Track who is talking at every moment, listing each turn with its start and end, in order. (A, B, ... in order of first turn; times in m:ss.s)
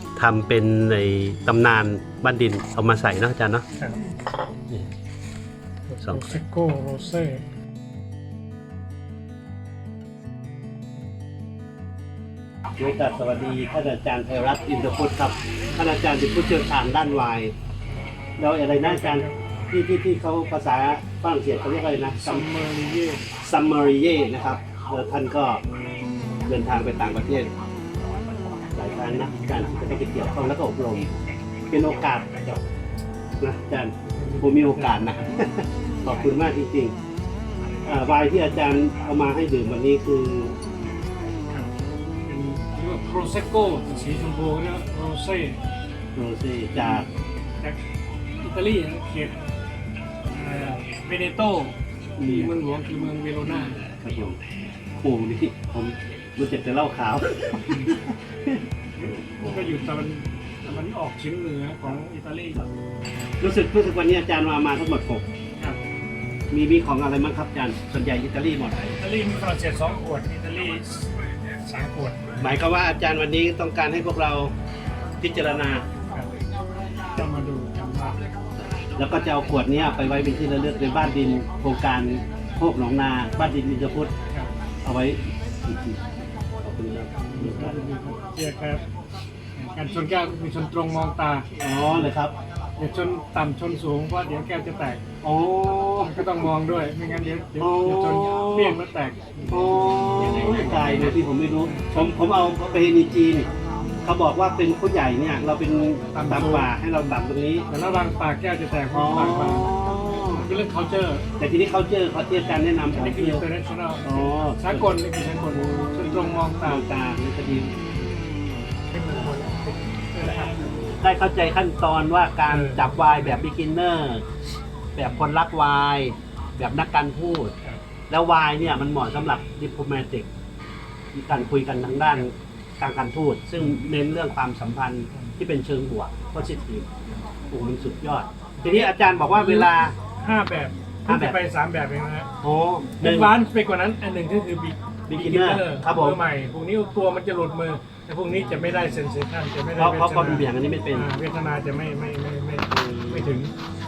0:00.2-0:03.6 A
0:03.8-0:04.0 B
0:05.9-0:07.4 B
0:06.0-0:06.4 A
0:12.8-0:17.5 A
0:18.4-0:22.5 A
0:18.7-0:19.4 B
0:22.2-0:23.2 B
0:23.4-0:25.6 A
0:26.5-0:27.5 A
0:28.8-0:31.1 A
0:29.1-0:29.8 B
0:31.7-0:32.6 A
0:33.4-0:37.0 A
0:34.1-0:35.4 B
0:36.1-0:36.3 B
0:37.8-0:40.6 A
0:42.2-0:45.6 B
0:46.2-0:47.1 A
0:46.8-0:47.1 B
0:48.4-0:49.4 B
0:50.3-0:53.8 B
0:52.2-0:52.6 A
0:53.9-0:54.4 A
0:55.0-0:59.9 A
0:57.7-0:58.0 B
0:59.0-1:02.7 B
1:03.4-1:05.3 A
1:06.5-1:08.8 A
1:08.8-1:11.1 B
1:11.6-1:12.6 B
1:12.4-1:14.5 A
1:15.2-1:15.8 A
1:17.2-1:18.2 B
1:19.0-1:24.1 A
1:24.8-1:26.0 A
1:26.6-1:27.8 A
1:27.2-1:28.8 B
1:29.6-1:32.1 B
1:31.6-1:32.4 A
1:32.8-1:35.0 B
1:35.2-1:36.4 A
1:36.0-1:42.6 B
1:37.6-1:38.8 A
1:39.5-1:43.5 A
1:44.0-1:47.6 A
1:46.1-1:46.7 B
1:47.7-1:51.3 B
1:48.9-1:50.5 A
1:51.4-1:53.4 A
1:52.9-1:56.8 B
1:54.0-1:55.0 A
1:56.6-1:57.7 A
1:57.8-1:58.1 B
1:58.9-2:01.0 B
2:01.0-2:04.2 A
2:02.5-2:03.5 B
2:05.0-2:07.5 A
2:05.0-2:05.3 B
2:08.1-2:10.3 A
2:11.1-2:16.9 A
2:11.3-2:12.3 B
2:17.5-2:20.0 A
2:18.6-2:22.3 B
2:21.1-2:21.4 A
2:22.4-2:23.3 A
2:23.0-2:33.5 B
2:25.1-2:26.2 A
2:29.8-2:31.1 A
2:32.7-2:33.3 A